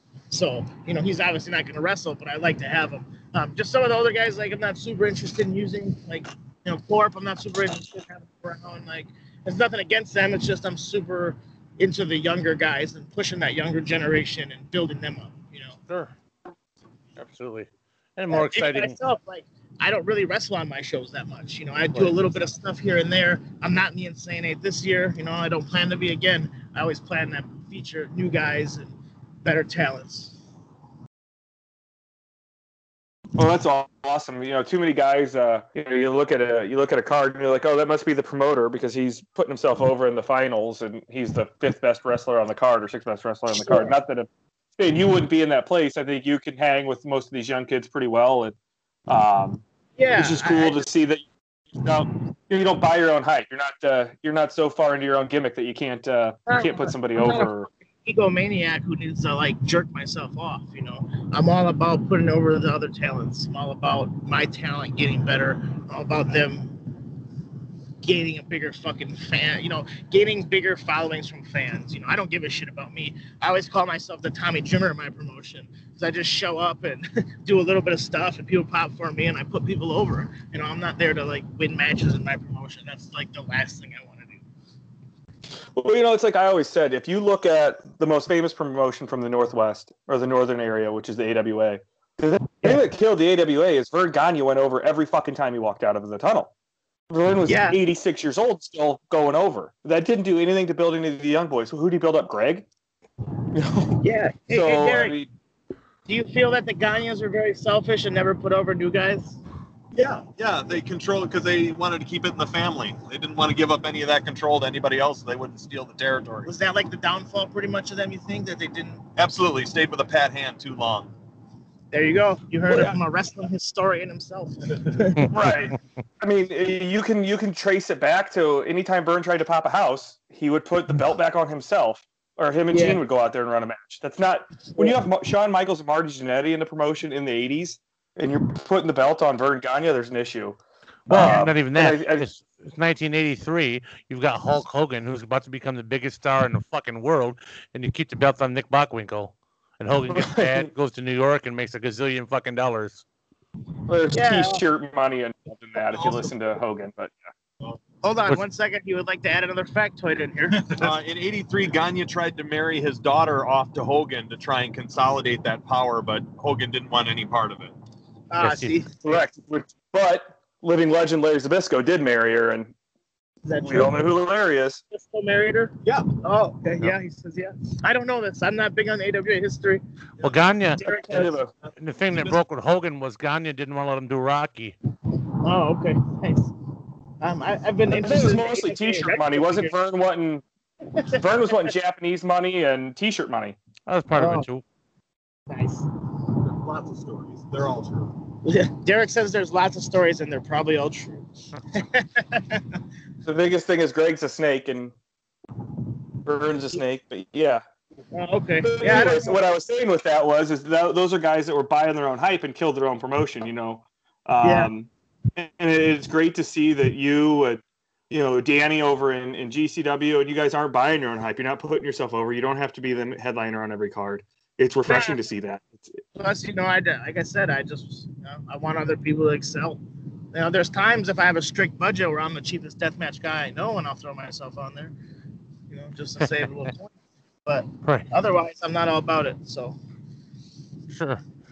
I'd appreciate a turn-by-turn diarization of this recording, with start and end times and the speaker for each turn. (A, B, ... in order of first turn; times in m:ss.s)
0:00.3-0:15.8 A
0:15.9-0:16.1 B
0:17.2-0:19.0 B
0:18.3-0:28.9 A
0:29.4-0:30.4 A
0:33.4-0:48.5 C
0:43.5-0:43.9 A
0:49.1-0:49.6 C
0:50.0-0:50.9 A
0:50.1-0:57.7 C
0:56.5-1:06.8 A
1:08.0-1:24.4 A
1:25.8-1:36.5 C
1:37.1-1:42.7 C
1:37.4-1:37.8 A
1:43.5-1:45.3 C
1:44.0-1:45.2 A
1:46.1-1:49.4 A
1:49.9-1:56.5 D
1:56.4-1:59.0 A
1:59.2-2:01.1 D
2:01.9-2:05.4 A
2:02.7-2:03.0 C
2:05.3-2:22.2 C
2:12.7-2:13.0 A
2:14.7-2:15.0 A
2:21.1-2:33.0 B
2:30.1-2:30.7 C
2:33.9-2:37.2 C
2:34.1-2:34.6 A
2:35.9-2:36.3 A
2:38.0-2:40.9 A
2:40.8-2:47.7 D
2:48.3-2:49.2 A
2:48.4-2:48.8 B
2:49.0-2:52.7 C
2:53.4-2:54.1 A
2:53.6-2:54.8 C
2:54.9-3:01.4 A
2:55.8-2:56.1 D
3:00.2-3:00.9 B
3:00.9-3:01.5 C
3:01.7-3:02.4 D
3:01.8-3:04.7 B
3:05.4-3:06.5 A
3:07.2-3:09.7 A
3:07.9-3:10.4 C
3:10.9-3:11.7 A
3:11.1-3:13.6 C
3:13.9-3:14.6 B
3:14.2-3:14.4 A
3:15.5-3:15.9 A
3:16.5-3:18.1 D
3:18.4-3:22.8 A
3:23.2-3:24.9 C
3:26.2-3:27.6 C
3:28.1-3:29.4 A
3:28.6-3:46.0 C
3:34.4-3:34.7 A
3:44.9-3:45.2 A
3:46.1-3:49.8 A
3:50.3-3:54.9 A
3:55.7-3:56.9 A
3:56.2-3:56.7 B
3:57.4-3:59.8 A
4:00.9-4:01.2 B